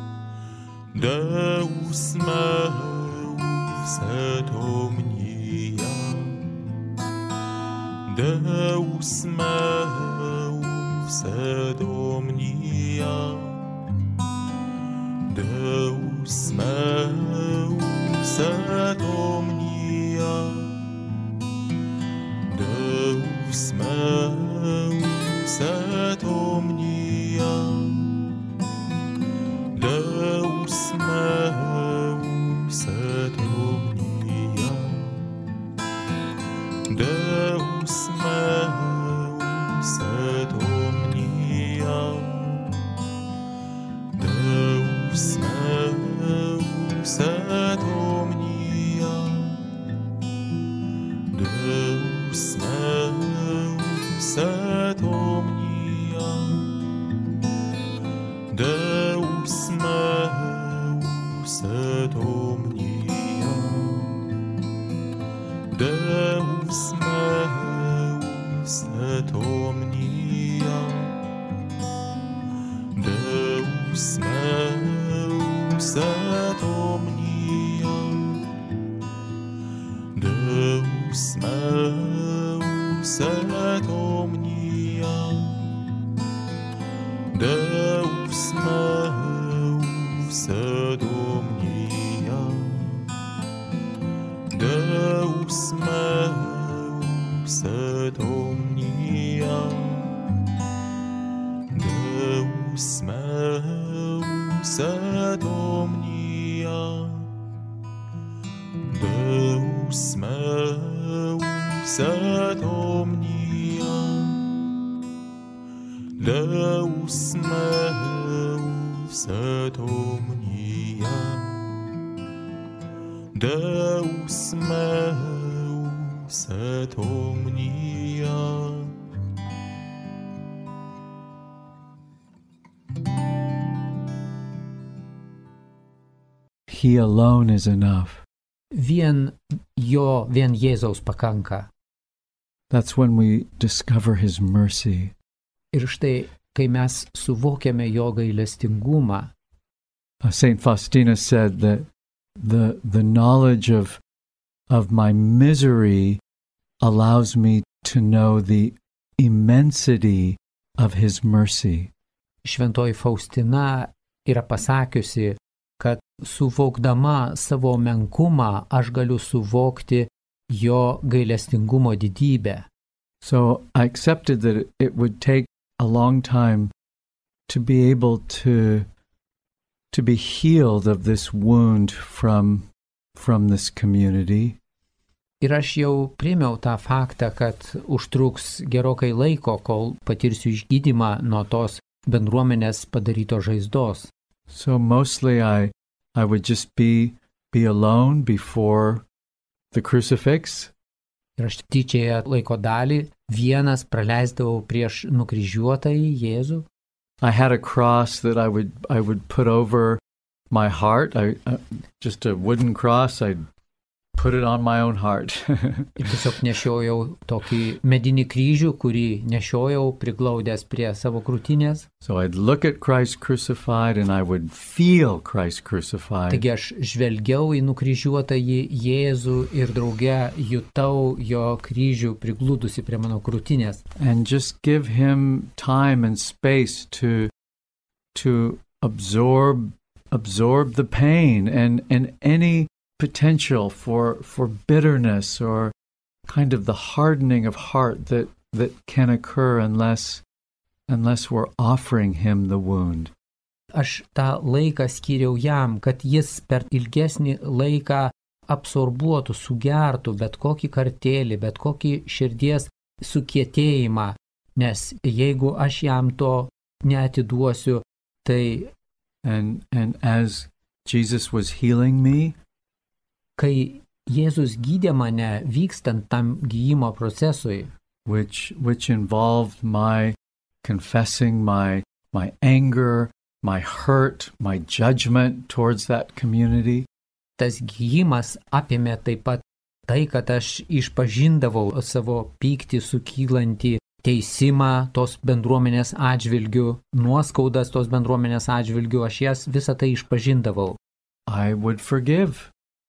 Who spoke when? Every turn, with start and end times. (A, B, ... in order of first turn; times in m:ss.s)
0:00.9-0:06.7 A
0:08.1-0:13.7 A
0:15.3-0:20.9 A
0:22.5-0:28.3 A
0:29.7-0:35.3 A
0:36.9-0:42.8 A
0:44.1-0:49.6 A
0:51.3-0:57.0 A
0:58.5-1:04.4 A
1:05.7-1:11.2 A
1:12.9-1:18.5 A
1:20.1-1:25.9 A
1:27.3-1:33.1 A
1:34.5-1:40.2 A
1:41.7-1:47.3 A
1:48.8-1:54.6 A
1:56.2-2:01.9 A
2:03.3-2:09.0 A
2:16.7-2:18.2 B
2:18.7-2:21.7 C
2:22.7-2:25.1 B
2:25.7-2:29.3 C
2:30.2-2:31.9 B
2:32.4-2:34.0 B
2:34.7-2:36.2 B
2:36.8-2:41.9 B
2:42.4-2:52.7 C
2:53.2-2:56.7 B
2:57.5-2:58.9 B
2:59.9-3:04.6 B
3:05.4-3:14.1 C
3:14.5-3:19.0 B
3:19.7-3:20.7 B
3:21.4-3:26.7 C
3:27.2-3:33.5 B
3:34.2-3:36.1 B
3:36.0-3:41.9 C
3:42.0-3:46.4 B
3:46.3-3:53.8 C
3:54.0-3:57.3 B
3:58.1-4:05.7 B
4:06.3-4:10.2 B
4:10.9-4:13.1 B
4:13.7-4:28.7 C
4:29.2-4:32.4 B
4:33.4-4:37.7 C
4:38.1-4:46.9 B
4:47.4-5:00.8 C
5:01.3-5:02.5 B